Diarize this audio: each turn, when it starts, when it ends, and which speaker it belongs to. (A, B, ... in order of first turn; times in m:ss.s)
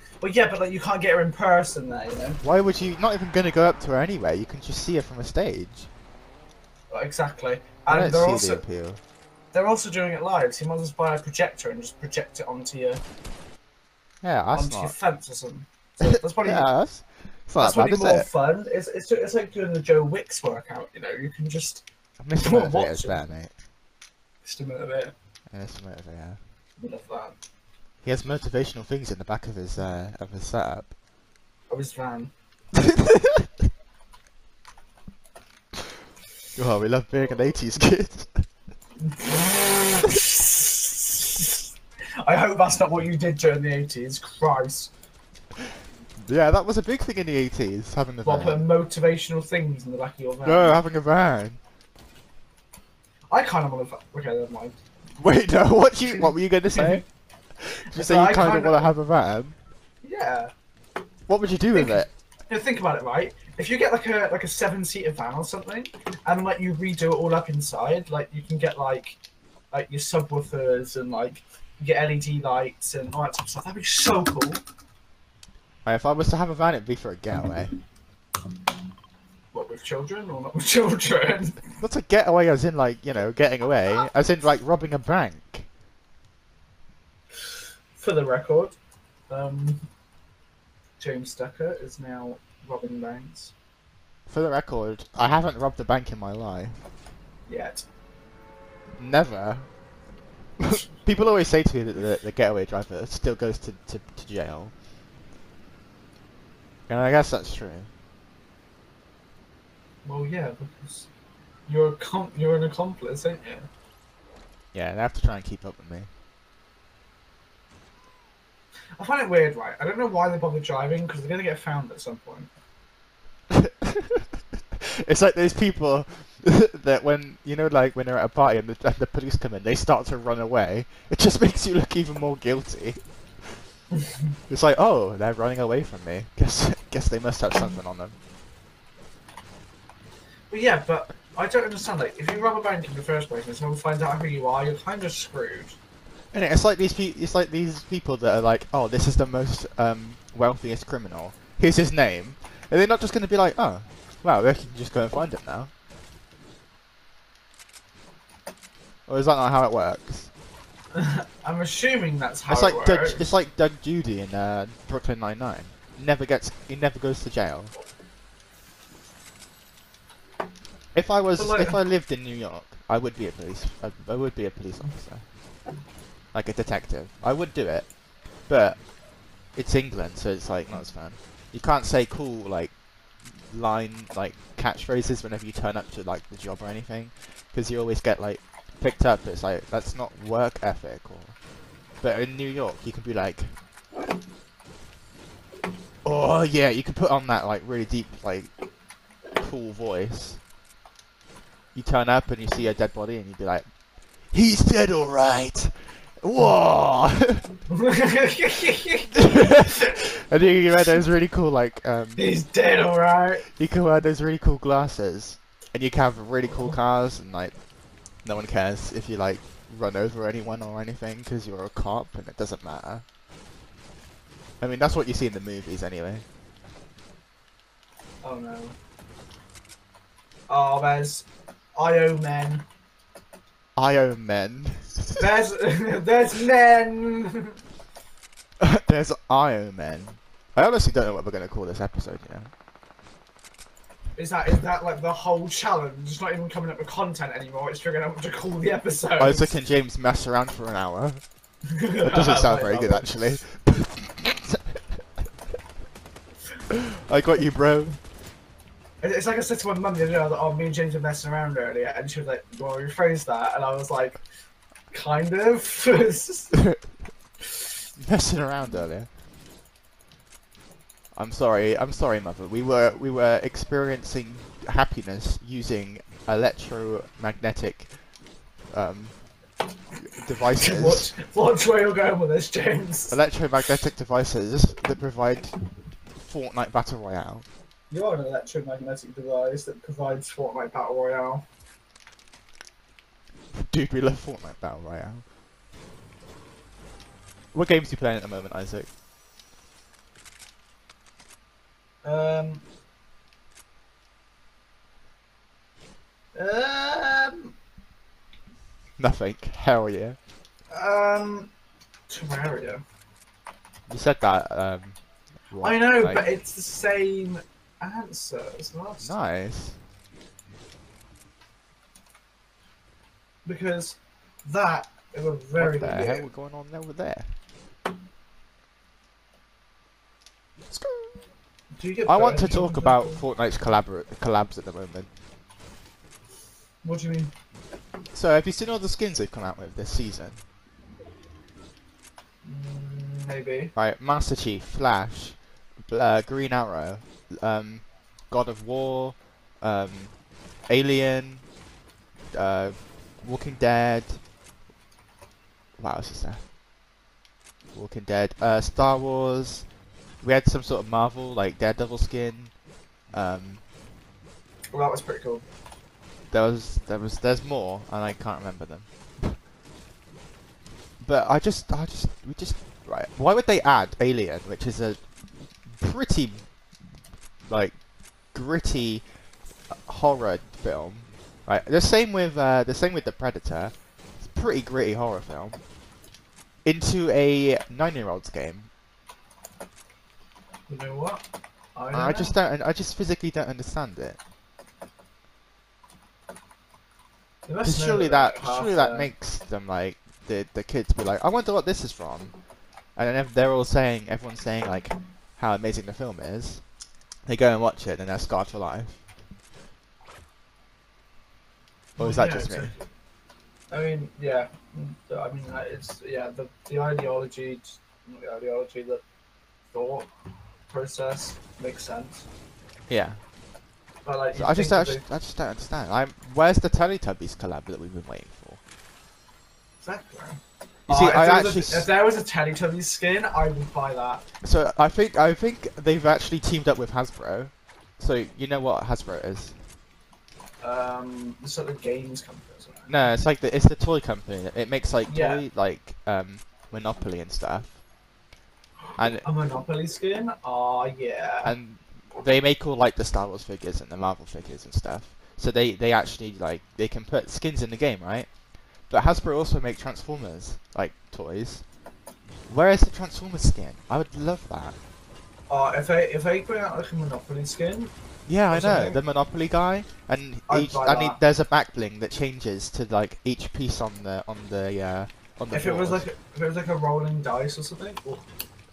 0:00.2-0:02.4 A
0:02.4-0:05.9 B
0:06.9-0:08.6 A
0:07.9-0:09.0 B
0:09.5-0:13.0 A
0:14.2-0:14.9 B
0:14.5-0:16.7 A
0:16.0-0:18.3 B
0:17.6-0:21.8 A
0:22.2-0:23.5 B
0:22.4-0:23.2 A
0:24.4-0:25.1 A
0:25.5-0:26.4 B
0:26.8-0:27.4 A
0:28.0-0:30.9 B
0:31.7-0:32.3 A
0:32.7-0:33.5 B
0:36.6-0:38.4 B
0:39.0-0:41.7 A
0:42.2-0:44.9 A
0:46.2-0:48.6 B
0:48.2-0:50.8 A
0:50.4-0:51.6 B
0:53.3-0:54.8 A
0:55.2-0:57.0 B
0:56.1-0:57.0 A
0:57.6-0:59.6 B
0:57.9-0:58.9 A
1:00.0-1:00.5 A
1:01.3-1:02.1 B
1:01.7-1:09.2 A
1:09.7-1:14.6 A
1:15.8-1:17.7 B
1:19.5-1:21.7 A
1:21.8-1:25.7 B
1:28.0-1:28.8 A
1:29.3-1:29.9 A
1:31.0-1:33.5 A
1:34.3-1:36.8 B
1:37.5-1:37.8 A
1:39.0-1:39.7 B
1:40.6-1:44.7 B
1:46.9-1:47.9 B
1:50.0-1:51.1 A
1:51.7-1:53.7 A
1:54.7-1:56.1 B
1:59.0-2:02.5 A
2:03.5-2:13.0 B
2:13.9-2:14.2 A
2:14.5-2:18.2 B
2:20.5-2:25.8 A
2:26.3-2:35.7 B
2:39.1-2:40.3 B
2:40.9-2:43.2 A
2:42.5-2:47.7 B
2:50.9-2:55.2 B
2:51.4-2:51.8 A
2:56.3-2:57.9 B
2:58.5-2:58.8 B
2:59.6-3:02.7 B
3:03.3-3:11.3 B
3:12.0-3:13.5 B
3:16.0-3:18.5 B
3:19.4-3:20.4 B
3:21.7-3:23.6 B
3:24.3-3:27.5 B
3:27.7-3:30.0 A
3:29.1-3:32.2 B
3:32.2-3:33.4 A
3:33.5-3:37.5 B
3:38.2-3:43.0 B
3:44.6-3:46.2 B
3:48.2-3:48.8 A
3:50.5-3:52.6 A
3:53.8-3:55.2 B
3:55.2-3:57.6 A
3:58.6-4:02.5 B
4:04.2-4:09.6 A
4:09.2-4:11.2 B
4:11.7-4:13.1 A
4:12.0-4:14.8 B
4:16.7-4:18.0 B
4:19.0-4:24.2 A
4:24.9-4:26.6 A
4:26.5-4:26.8 B
4:27.4-4:27.7 A
4:28.0-4:29.1 B
4:31.1-4:37.9 B
4:38.7-4:39.1 B
4:40.0-4:41.1 B
4:40.6-4:43.2 A
4:43.1-4:45.5 B
4:46.2-4:47.4 B
4:47.9-4:51.4 A
4:53.5-4:55.2 B
4:57.5-4:58.9 B
5:02.0-5:02.6 A
5:06.3-5:07.5 A
5:09.0-5:10.2 B
5:10.7-5:11.5 A
5:12.1-5:12.8 A
5:13.9-5:15.0 B
5:15.5-5:16.2 B
5:15.6-5:19.1 A
5:19.0-5:19.8 B
5:23.4-5:26.3 A
5:25.6-5:27.3 B
5:30.7-5:31.2 B
5:31.8-5:33.2 A
5:32.0-5:35.1 B
5:36.8-5:37.3 A
5:38.1-5:40.4 B
5:42.4-5:43.7 A
5:43.8-5:45.4 B
5:45.9-5:50.1 B
5:50.7-5:51.4 B
5:52.3-5:54.2 B
5:55.8-5:56.4 B
5:57.7-5:59.6 B
6:00.2-6:02.5 B
6:03.1-6:03.6 B
6:04.7-6:05.4 A
6:06.3-6:09.4 B
6:11.0-6:15.0 B
6:15.7-6:16.4 B
6:17.5-6:17.7 B
6:18.3-6:19.0 B
6:19.7-6:25.6 B
6:26.6-6:28.7 B
6:30.7-6:31.2 A
6:31.7-6:32.3 A
6:31.9-6:34.2 B
6:37.5-6:39.1 A
6:37.6-6:42.3 B
6:43.0-6:46.6 B
6:47.2-6:49.0 B
6:52.0-6:52.8 B
6:52.0-6:52.8 A
6:53.7-6:59.0 A
6:59.7-7:00.1 A
7:00.7-7:02.3 A
7:02.9-7:03.2 B
7:04.0-7:05.0 A
7:04.3-7:08.6 B
7:09.8-7:14.2 A
7:10.9-7:11.9 B
7:14.4-7:19.5 B
7:20.6-7:23.0 A
7:22.9-7:27.8 B
7:25.1-7:25.4 A
7:29.0-7:29.2 B
7:29.2-7:31.5 A
7:31.4-7:38.3 B
7:38.9-7:41.6 B
7:42.5-7:44.8 B
7:45.5-7:47.9 A
7:48.3-7:56.0 B
7:48.5-7:49.0 A
7:50.5-7:51.2 A
7:55.5-7:58.2 A